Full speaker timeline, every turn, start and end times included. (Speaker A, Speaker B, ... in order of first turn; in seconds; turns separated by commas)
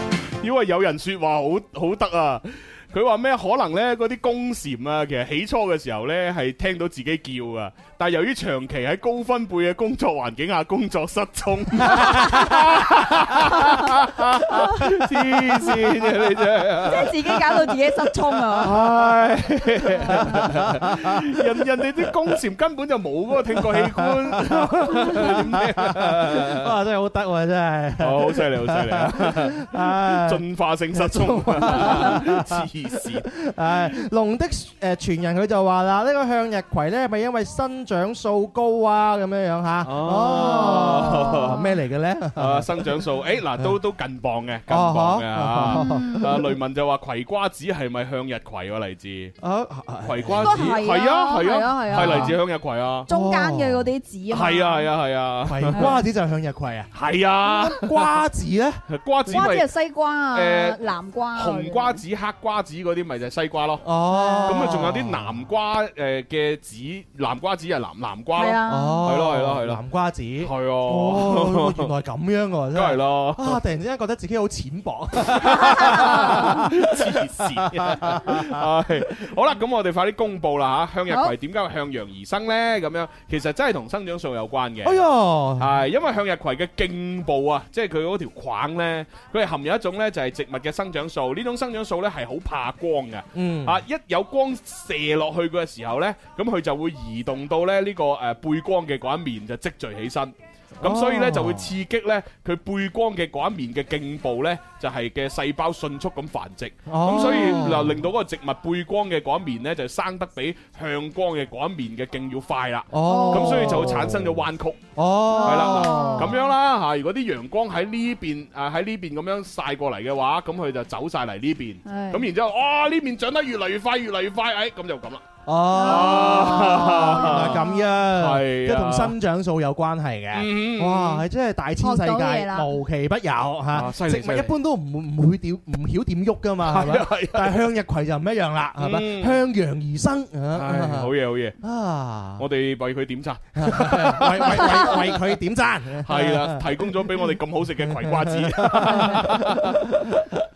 Speaker A: 0.4-17.8, Speaker B: 12.0-12.6, Speaker B: 13.5-14.8, Speaker B: 16.8-18.7, Speaker A: 18.6-26.7, Speaker C: 19.9-21.7, Speaker C: 23.6-32.7, Speaker A: 28.0-33.3, Speaker C: 33.3-43.0, Speaker A: 39.8-41.6, Speaker B: 40.3-41.6, Speaker A: 42.4-49.4, Speaker C: 44.7-46.5, Speaker B: 45.7-46.2, Speaker C: 49.4-50.8, Speaker A: 50.0-53.1, Speaker B: 50.4-52.3, Speaker C: 51.9-52.4, Speaker C: 53.1-53.9, Speaker B: 53.1-54.9, Speaker A: 54.3-56.0, Speaker C: 55.5-56.9, Speaker A: 56.9-58.3, Speaker C: 57.4-58.8, Speaker A: 58.9-59.7, Speaker B: 59.3-62.0, Speaker A: 60.3-60.8, Speaker A: 61.3-63.9, Speaker C: 63.8-65.3, Speaker B: 64.1-64.7, Speaker A: 64.5-69.8, Speaker B: 68.3-69.1, Speaker C: 68.7-78.6, Speaker A: 70.4-71.9, Speaker A: 72.7-73.6, Speaker A: 75.2-85.1, Speaker B: 75.5-76.6, Speaker C: 84.8-85.8, Speaker A: 85.6-114.8, Speaker C: 93.3-93.8, Speaker C: 100.8-101.8, Speaker C: 106.9-108.1, Speaker C: 112.9-114.4, Speaker B: 113.0-114.0, Speaker C: 115.0-116.4, Speaker B: 115.3-116.3, Speaker A: 115.4-129.2, Speaker B: 121.9-122.3, Speaker C: 125.5-141.1, Speaker B: 125.7-127.8, Speaker A: 130.3-131.2, Speaker B: 131.8-132.7, Speaker A: 133.7-134.5, Speaker A: 136.7-137.6, Speaker A: 138.8-139.4, Speaker A: 140.5-141.6, Speaker C: 141.6-142.4, Speaker A: 142.4-145.1, Speaker C: 143.6-150.2, Speaker A: 146.0-150.1